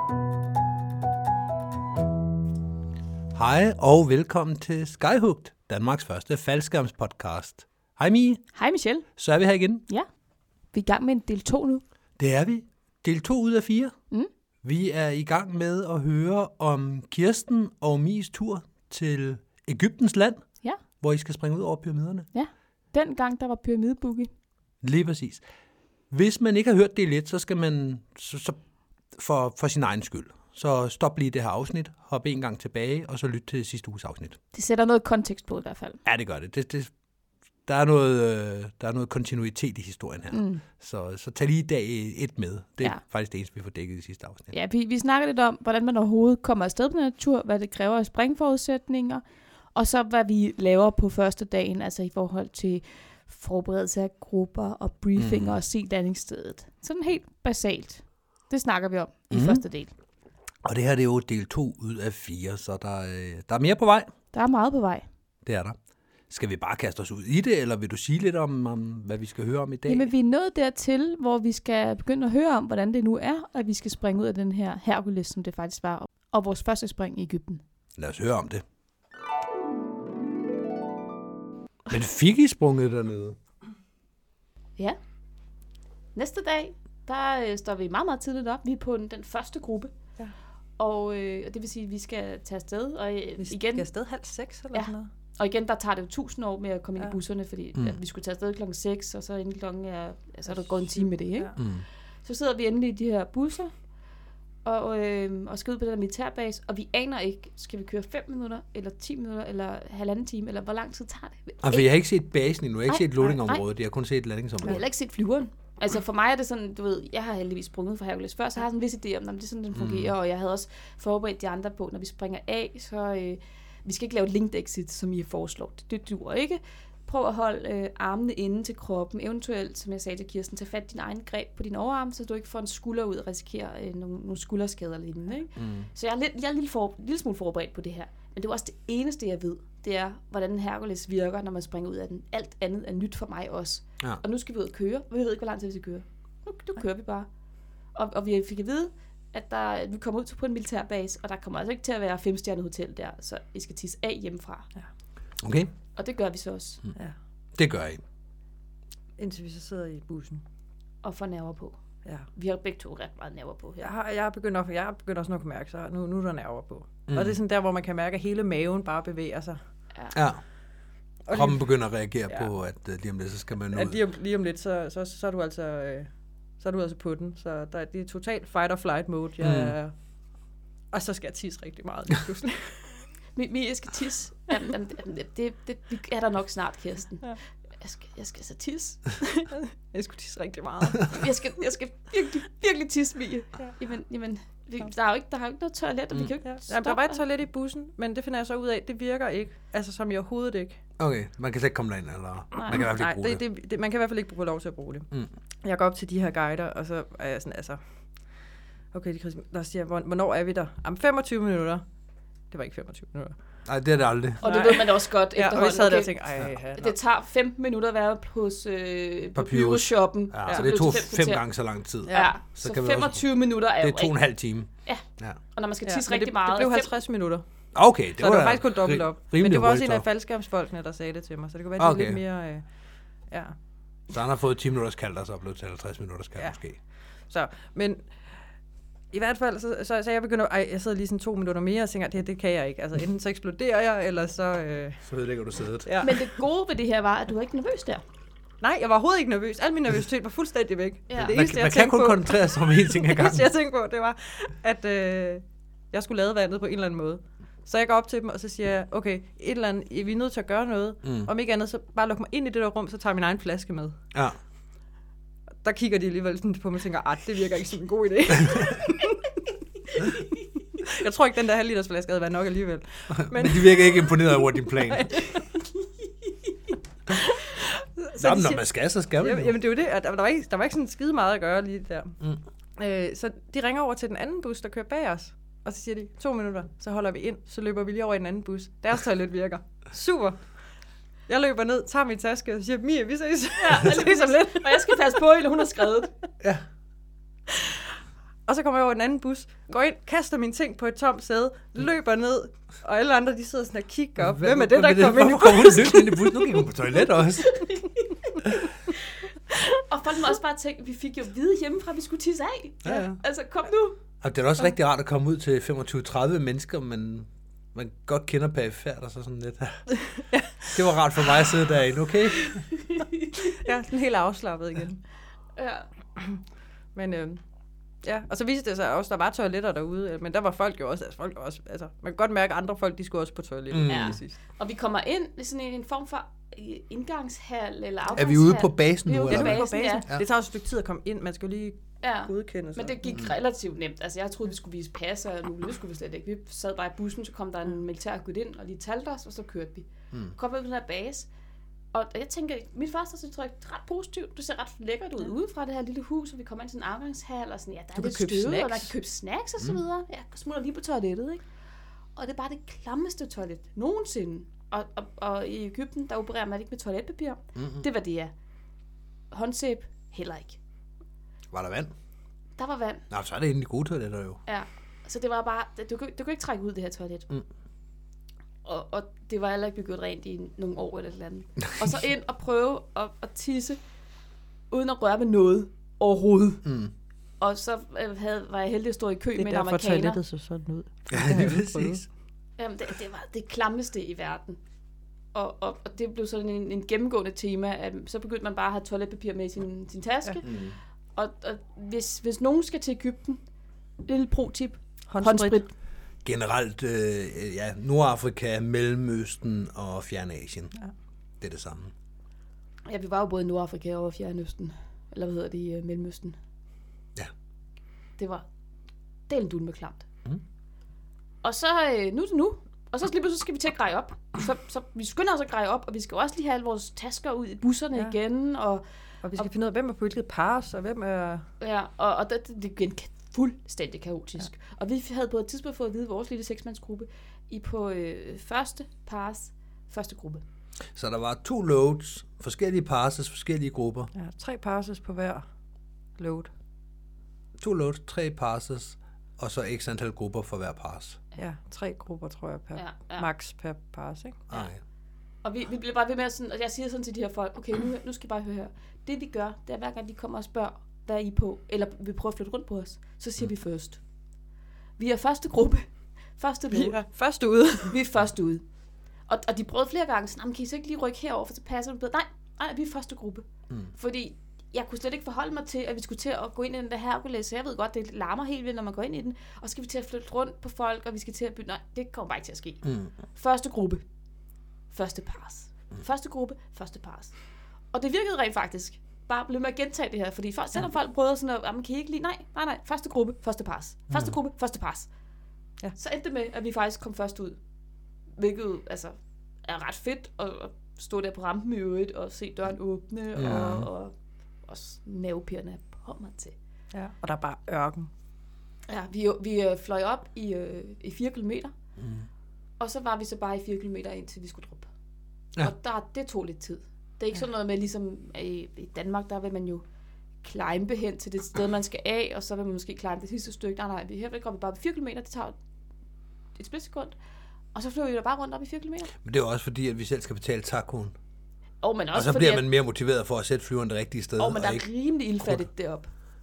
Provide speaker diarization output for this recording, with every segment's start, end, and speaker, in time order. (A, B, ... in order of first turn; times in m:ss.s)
0:03.3-0:08.4 A
0:08.5-0:09.0 B
0:09.2-0:09.8 A
0:10.7-0:11.8 B
0:12.2-0:13.9 A
0:14.6-0:20.4 A
0:21.0-0:22.3 A
0:22.3-0:24.3 B
0:24.8-0:25.4 A
0:26.1-0:28.6 A
0:29.1-0:34.4 A
0:34.5-0:36.0 B
0:36.0-0:36.9 A
0:37.6-0:44.5 A
0:40.3-0:40.6 B
0:44.5-0:59.9 B
0:55.2-0:55.6 A
0:59.3-0:59.6 A
1:00.6-1:04.1 A
1:04.3-1:05.0 B
1:05.4-1:05.8 A
1:06.3-1:10.1 A
1:09.8-1:17.6 B
1:18.0-1:18.6 A
1:21.9-1:23.4 A
1:26.1-1:29.9 B
1:30.8-1:33.9 B
1:33.4-1:35.1 C
1:34.7-1:43.7 B
1:40.5-1:41.6 C
1:41.6-1:41.8 A
1:44.6-1:51.9 B
1:51.6-1:54.8 A
1:52.9-1:53.6 B
1:54.6-2:27.3 B
1:59.7-2:00.1 A
2:15.6-2:15.9 A
2:27.9-2:34.7 B
2:35.4-2:35.7 A
2:36.0-2:36.8 B
2:37.5-2:38.0 A
2:39.2-2:40.4 C
2:41.0-2:41.8 B
2:42.3-2:43.9 B
2:43.8-2:49.6 C
2:47.1-2:47.4 A
2:50.1-2:50.4 A
2:51.2-2:52.5 C
2:51.3-2:54.0 A
2:53.7-2:59.9 C
2:59.4-2:59.7 A
3:00.9-3:03.0 C
3:03.3-3:09.0 B
3:09.2-3:11.3 C
3:11.1-3:17.2 B
3:16.4-3:20.8 C
3:21.0-3:23.4 A
3:22.5-3:22.8 B
3:22.7-3:25.1 C
3:25.6-3:28.3 C
3:28.9-3:31.8 C
3:32.5-3:33.3 C
3:33.6-3:34.4 A
3:34.4-3:36.9 C
3:34.4-3:36.1 B
3:36.8-3:41.4 B
3:39.3-3:43.2 A
3:42.0-3:44.2 B
3:43.8-3:45.4 A
3:45.5-3:47.0 B
3:45.8-3:47.4 C
3:47.7-3:50.0 A
3:48.2-3:52.6 C
3:51.8-3:52.2 A
3:53.3-3:53.5 C
3:54.1-3:56.8 A
3:57.3-3:58.3 C
3:59.1-4:05.0 C
4:05.0-4:05.9 A
4:05.8-4:06.2 C
4:06.0-4:08.0 B
4:08.6-4:24.0 C
4:11.2-4:13.5 A
4:21.0-4:21.3 A
4:25.6-4:29.4 C
4:30.8-4:35.6 C
4:33.1-4:35.1 A
4:37.1-4:42.2 C
4:38.2-4:39.5 A
4:42.8-4:50.5 C
4:51.3-4:55.2 C
4:53.6-4:56.1 B
4:58.4-5:06.7 C
5:04.3-5:07.6 A
5:07.5-5:07.8 B
5:09.8-5:14.0 B
5:12.8-5:13.2 A
5:14.2-5:19.8 A
5:20.2-5:20.8 C
5:20.7-5:22.6 A
5:22.8-5:23.3 B
5:23.4-5:25.0 C
5:25.6-5:25.8 B
5:26.2-5:26.4 C
5:26.9-5:27.4 C
5:28.0-5:34.4 C
5:33.7-5:34.2 A
5:33.9-5:40.0 B
5:38.1-5:40.2 A
5:39.3-5:43.2 C
5:42.0-5:51.3 B
5:51.9-6:01.4 B
5:57.9-5:58.9 C
6:02.2-6:08.3 B
6:07.6-6:07.8 A
6:09.3-6:10.6 B
6:11.5-6:11.9 A
6:12.6-6:13.0 B
6:13.1-6:14.4 A
6:14.4-6:17.3 B
6:18.6-6:23.8 B
6:24.7-6:26.6 B
6:26.6-6:26.9 A
6:27.4-6:30.2 B
6:29.4-6:32.0 C
6:31.1-6:32.0 A
6:32.6-6:34.6 B
6:35.3-6:43.4 B
6:40.4-6:40.7 A
6:44.0-6:45.7 B
6:45.1-6:45.6 C
6:46.2-6:50.7 A
6:51.4-6:51.9 A
6:52.9-6:56.4 B
6:58.2-6:58.4 B
6:59.3-7:00.0 B
7:01.4-7:08.8 B
7:09.2-7:11.5 C
7:11.6-7:20.4 B
7:20.9-7:24.1 A
7:24.1-7:25.4 C
7:26.2-7:26.5 C
7:27.6-7:31.2 A
7:31.4-7:34.4 C
7:32.8-7:33.3 B
7:34.5-7:34.8 A
7:35.4-7:44.0 B
7:45.0-7:47.0 B
7:46.7-7:48.0 C
7:47.9-7:48.6 B
7:49.2-8:04.0 B
8:02.8-8:03.1 A
8:04.9-8:07.4 B
8:07.9-8:15.1 B
8:16.0-8:17.6 B
8:18.4-8:24.1 B
8:23.4-8:23.9 A
8:24.6-8:26.6 B
8:26.9-8:28.1 C
8:28.9-8:31.7 B
8:32.0-8:32.2 A
8:32.8-8:34.9 B
8:35.6-8:39.8 B
8:40.4-8:45.6 B
8:46.6-8:47.2 B
8:47.7-8:49.1 B
8:49.2-8:51.1 A
8:51.8-8:52.6 B
8:52.1-8:54.8 A
8:54.4-8:56.1 B